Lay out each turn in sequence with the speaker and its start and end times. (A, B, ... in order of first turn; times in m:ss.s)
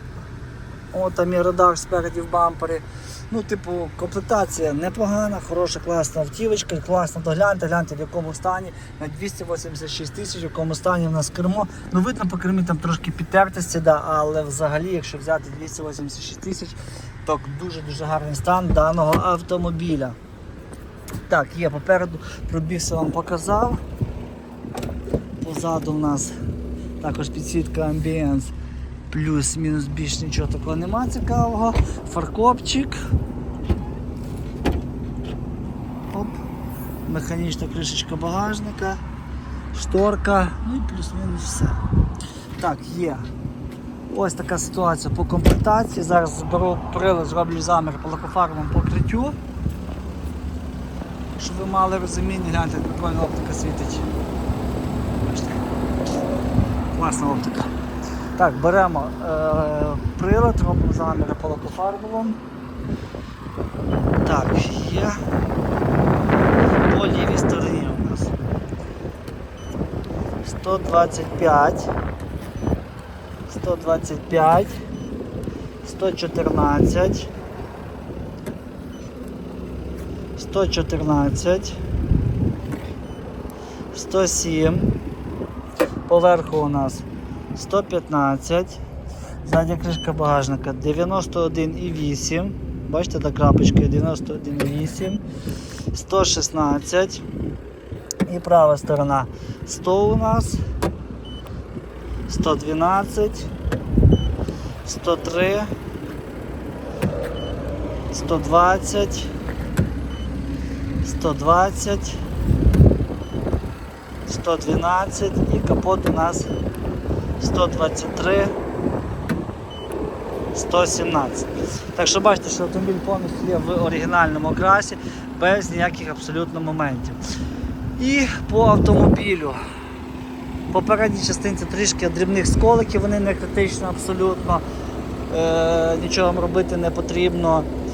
0:00.9-0:20.2 A
0:21.3-0:23.8 A
0:25.4-0:26.3 A
0:27.0-0:28.5 A
0:29.1-0:33.0 A
0:36.1-0:36.4 A
0:37.1-0:39.0 A
0:39.7-0:41.8 A
0:42.6-0:43.3 A
0:44.1-0:49.4 A
0:51.4-0:54.1 A
0:55.3-0:55.5 A
0:56.9-0:57.7 A
0:58.4-1:02.4 A
1:04.2-1:05.2 A
1:06.8-1:08.3 A
1:10.4-1:11.9 A
1:13.5-1:14.7 A
1:15.8-1:17.3 A
1:20.4-1:21.8 A
1:23.9-1:25.0 A
1:26.1-1:28.8 A
1:29.4-1:35.2 A
1:35.9-1:37.2 A
1:38.3-1:40.6 A
1:42.3-1:43.5 A
1:44.8-1:45.7 A
1:48.1-1:49.3 A
1:51.0-1:52.2 A
1:54.3-1:56.5 A
1:57.4-1:58.5 A
2:00.5-2:07.2 A
2:08.0-2:09.6 A
2:10.7-2:14.6 A
2:15.3-2:17.7 A